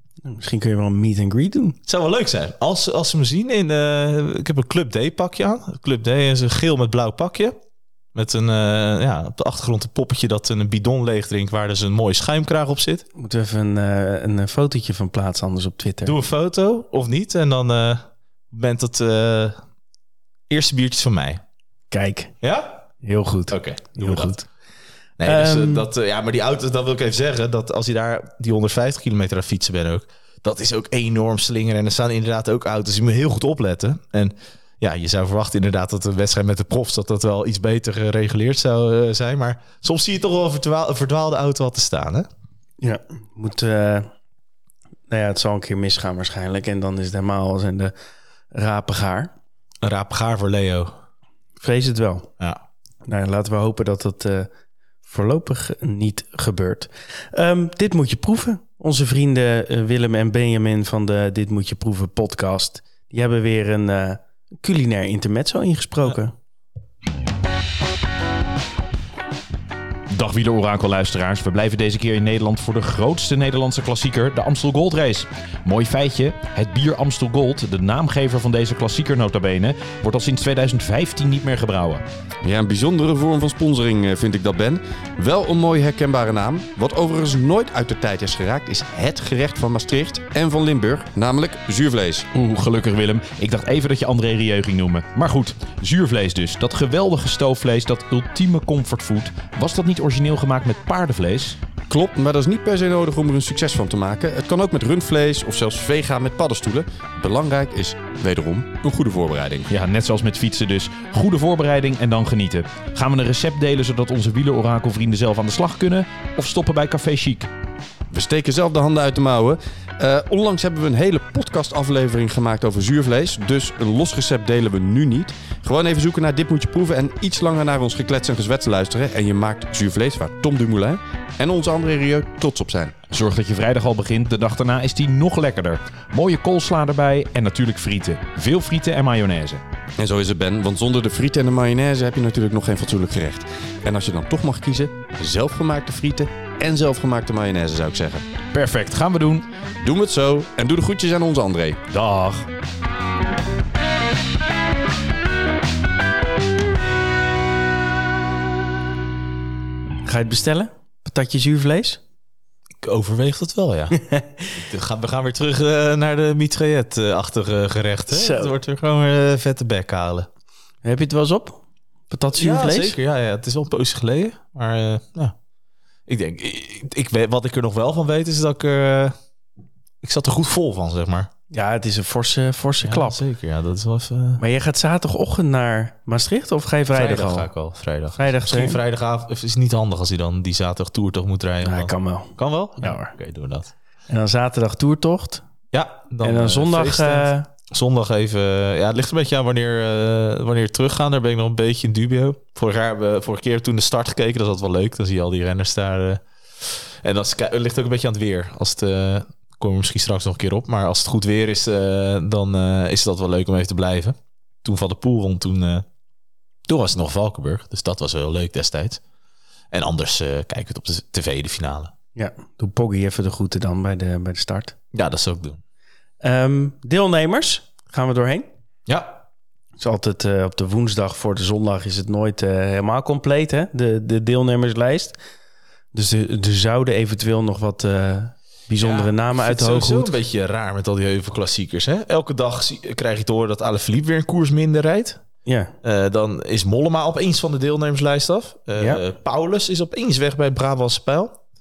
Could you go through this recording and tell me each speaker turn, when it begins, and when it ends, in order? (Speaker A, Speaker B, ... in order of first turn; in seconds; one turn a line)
Speaker A: 0.2-1.8
Speaker B: 1.9-7.6
Speaker B: 8.1-13.1
Speaker A: 13.2-16.1
Speaker B: 16.0-19.6
Speaker B: 20.5-21.4
Speaker A: 21.9-22.3
Speaker B: 22.4-22.8
Speaker A: 23.0-24.5
Speaker B: 23.5-24.4
Speaker B: 25.2-42.3
Speaker A: 25.2-25.9
Speaker A: 42.8-44.1
Speaker A: 45.1-47.9
Speaker A: 48.5-49.3
Speaker B: 49.8-51.0
Speaker A: 51.6-52.3
Speaker A: 53.1-54.5
Speaker A: 55.0-66.3
Speaker C: 70.1-82.0
Speaker D: 82.4-92.3
Speaker C: 92.3-101.6
Speaker D: 101.9-109.7
Speaker C: 109.7-117.5
Speaker D: 118.1-133.0
Speaker C: 133.1-139.6
Speaker D: 140.0-148.3
Speaker C: 148.5-149.4
Speaker D: 149.8-151.8
Speaker C: 151.9-152.5
Speaker A: 160.1-162.0
Speaker B: 162.8-164.0
Speaker A: 164.0-164.4
Speaker B: 164.5-170.3
Speaker A: 168.1-168.5
Speaker A: 170.8-173.0
Speaker B: 172.3-175.3
Speaker B: 176.1-179.2
Speaker B: 180.0-181.3
Speaker A: 181.5-183.2
Speaker B: 182.8-184.4
Speaker A: 184.4-187.5
Speaker B: 186.9-193.7
Speaker A: 188.2-188.8
Speaker A: 191.6-193.1
Speaker A: 194.1-195.4
Speaker B: 195.7-215.9
Speaker A: 196.2-197.5
Speaker B: 216.7-219.0
Speaker B: 219.7-221.9
Speaker A: 222.2-224.8
Speaker B: 224.9-225.6
Speaker A: 226.2-228.5
Speaker B: 228.9-229.2
Speaker A: 229.8-235.2
Speaker A: 235.9-240.1
Speaker B: 238.8-245.2
Speaker A: 245.5-245.7
Speaker B: 245.8-251.4
Speaker A: 248.8-249.0